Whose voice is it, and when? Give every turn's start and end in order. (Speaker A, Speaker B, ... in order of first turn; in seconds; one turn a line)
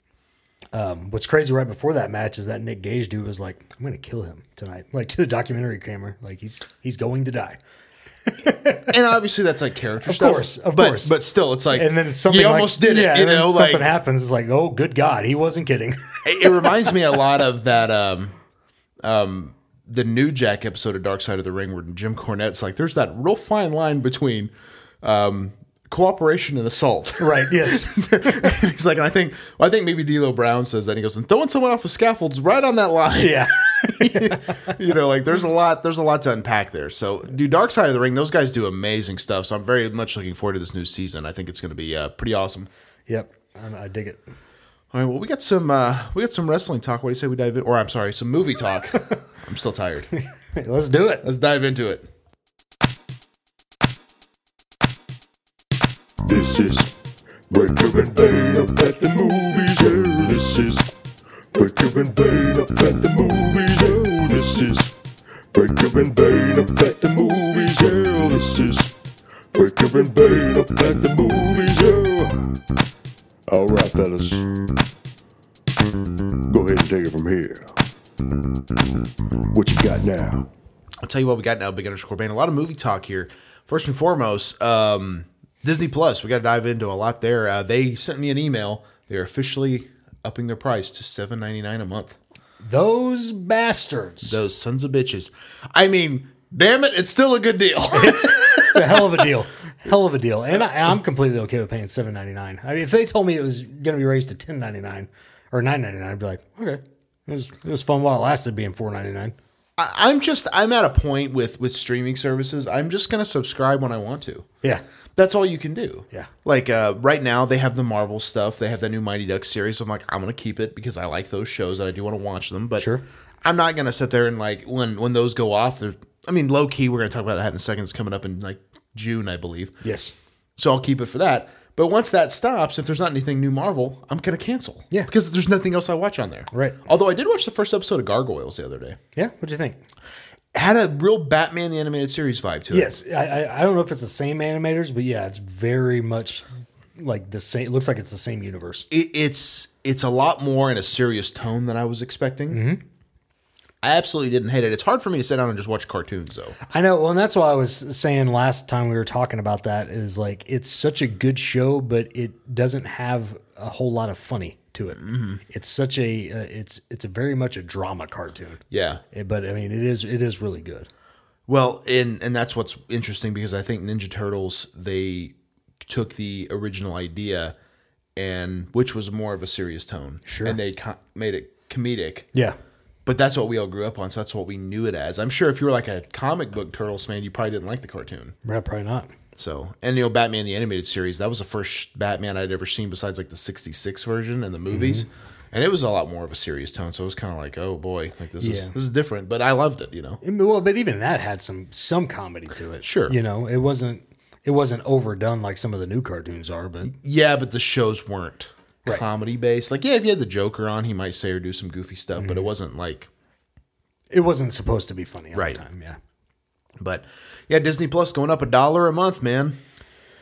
Speaker A: 0.7-7.6
Speaker A: 8.3-8.9
Speaker B: 8.9-13.9
Speaker A: 10.0-11.1
Speaker A: 11.7-16.9
Speaker B: 16.2-18.4
Speaker B: 19.0-42.7
Speaker A: 27.2-28.5
Speaker A: 33.2-34.7
Speaker A: 43.1-44.2
Speaker B: 44.9-50.1
Speaker A: 50.5-51.2
Speaker B: 51.2-52.1
Speaker C: 56.2-56.9
Speaker C: 57.5-60.9
Speaker C: 61.5-64.9
Speaker C: 65.5-68.9
Speaker C: 69.5-72.4
Speaker C: 73.5-74.4
Speaker C: 76.5-77.7
Speaker C: 79.5-80.5
Speaker B: 81.0-92.2
Speaker A: 92.6-94.4
Speaker B: 94.2-99.3
Speaker A: 97.9-109.3
Speaker B: 109.8-114.5
Speaker B: 115.2-122.9
Speaker A: 122.8-123.0
Speaker B: 123.4-129.8
Speaker A: 129.8-130.1
Speaker B: 130.6-139.0
Speaker A: 136.5-136.8
Speaker A: 139.2-139.8
Speaker B: 140.5-142.9
Speaker A: 142.7-148.9
Speaker B: 148.9-152.6
Speaker A: 152.5-152.8
Speaker B: 153.8-156.6
Speaker A: 156.7-170.9
Speaker B: 165.0-165.4
Speaker B: 168.7-169.0
Speaker B: 171.5-177.5
Speaker B: 178.2-182.3
Speaker A: 180.3-180.6
Speaker B: 183.1-188.3
Speaker A: 188.4-189.1
Speaker B: 189.4-200.2
Speaker A: 194.7-195.1
Speaker A: 198.4-198.7
Speaker A: 200.2-206.9
Speaker B: 202.8-203.2
Speaker B: 206.8-213.1
Speaker A: 212.2-212.5
Speaker A: 214.1-216.0
Speaker B: 215.3-215.6
Speaker B: 216.8-219.6